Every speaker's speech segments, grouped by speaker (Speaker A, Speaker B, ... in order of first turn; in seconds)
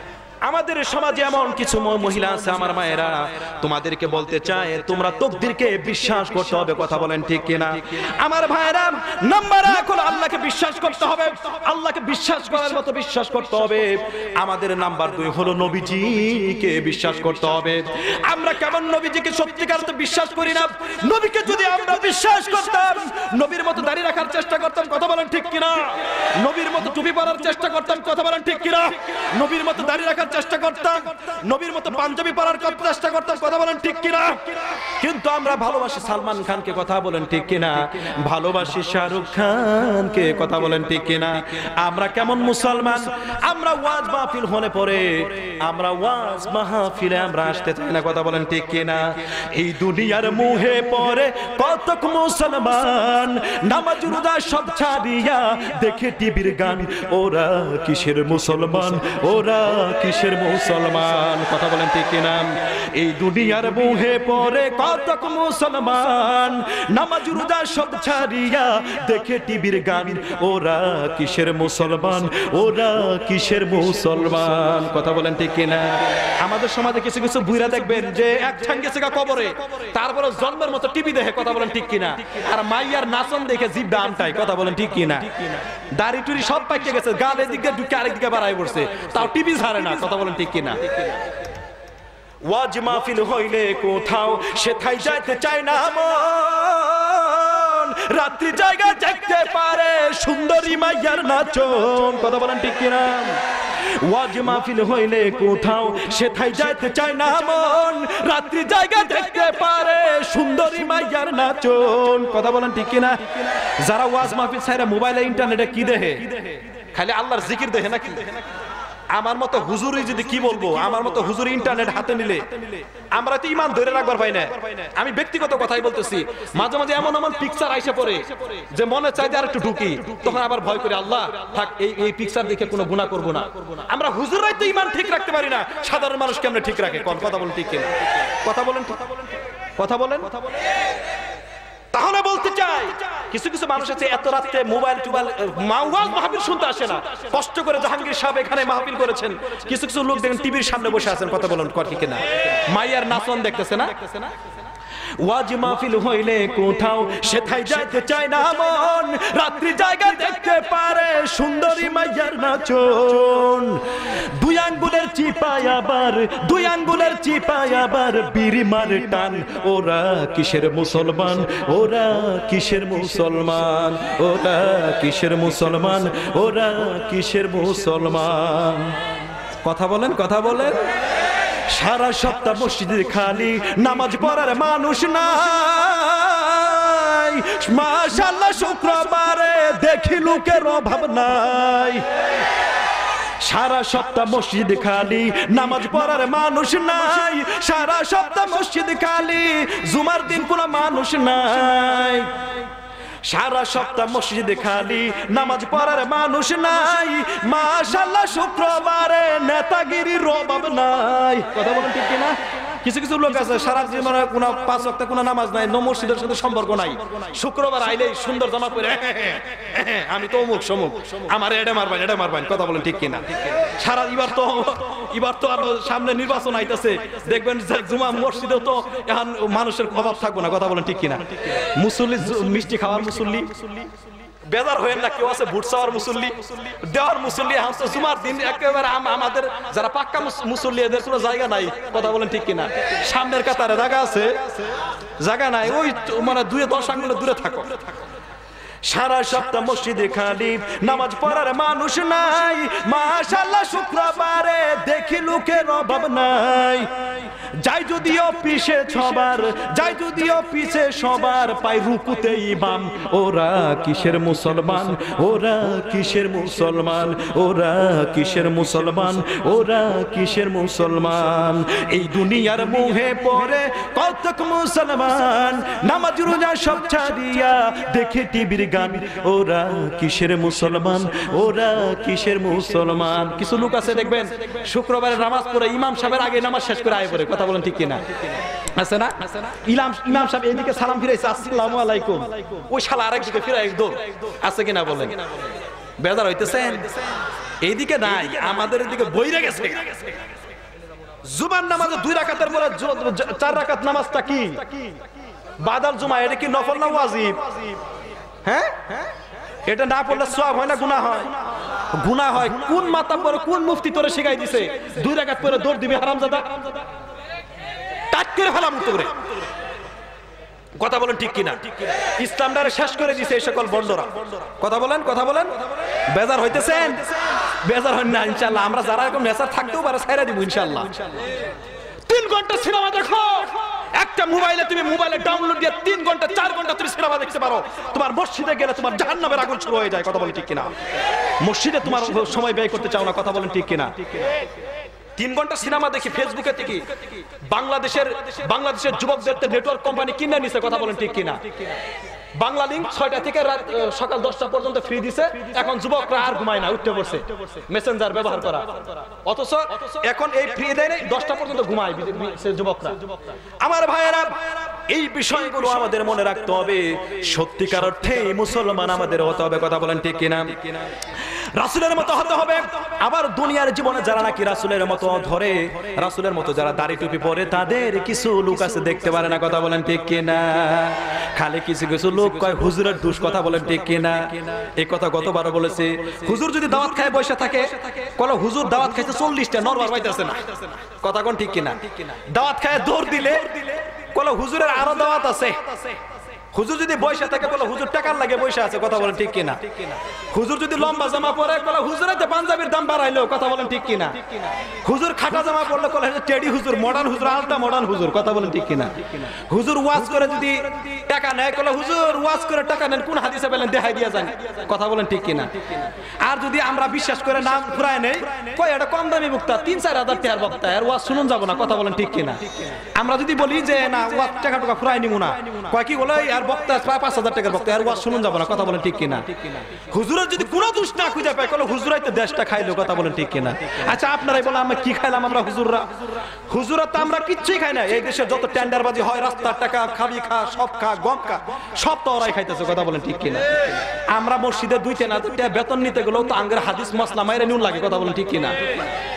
Speaker A: 0.4-91.0, 92.4-118.2, 119.1-139.1, 139.8-140.4, 141.9-154.3, 155.2-179.0, 179.6-180.8, 181.7-192.4, 193.4-202.4, 203.2-233.9, 234.5-244.5, 245.2-247.8, 248.8-256.9, 257.6-295.3, 296.0-296.9, 297.6-300.1, 301.2-304.8, 305.6-307.7, 308.4-309.0, 309.6-311.4, 311.9-316.8, 318.1-319.1, 320.8-330.9, 332.1-340.7, 341.4-344.0, 345.2-346.8, 347.5-351.4, 352.4-363.0, 363.6-370.8, 371.6-396.0, 396.5-435.9, 436.5-448.7